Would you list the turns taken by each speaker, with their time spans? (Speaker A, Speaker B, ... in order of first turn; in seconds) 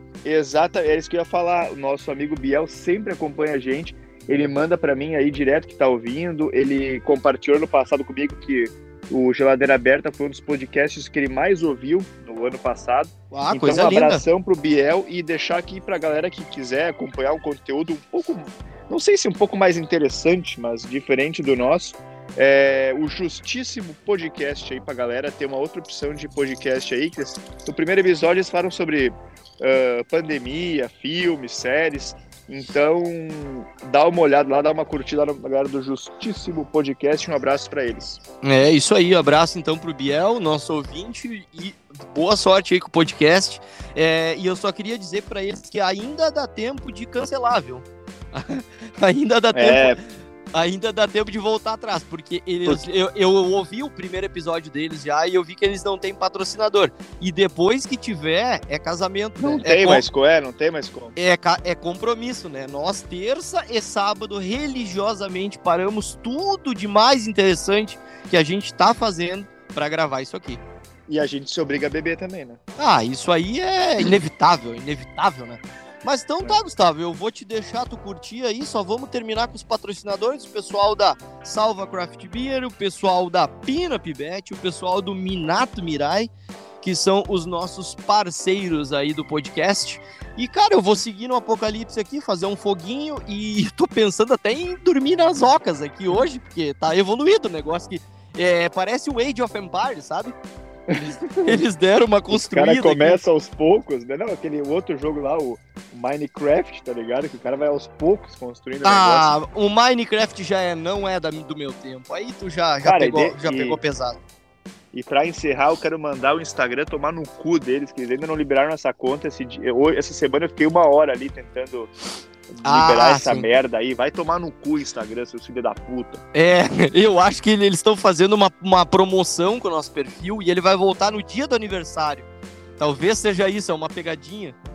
Speaker A: 0.2-38.2, 49.5-50.0, 59.4-61.1, 71.1-72.6, 100.9-101.6, 102.3-109.3, 112.8-113.8, 114.9-121.9, 122.5-126.2
Speaker B: 13.3-14.2, 38.4-50.0, 50.5-60.0, 61.1-70.6, 72.8-86.3, 86.8-100.3, 100.9-103.2, 108.8-114.2, 122.6-123.5, 126.3-132.3, 132.8-134.6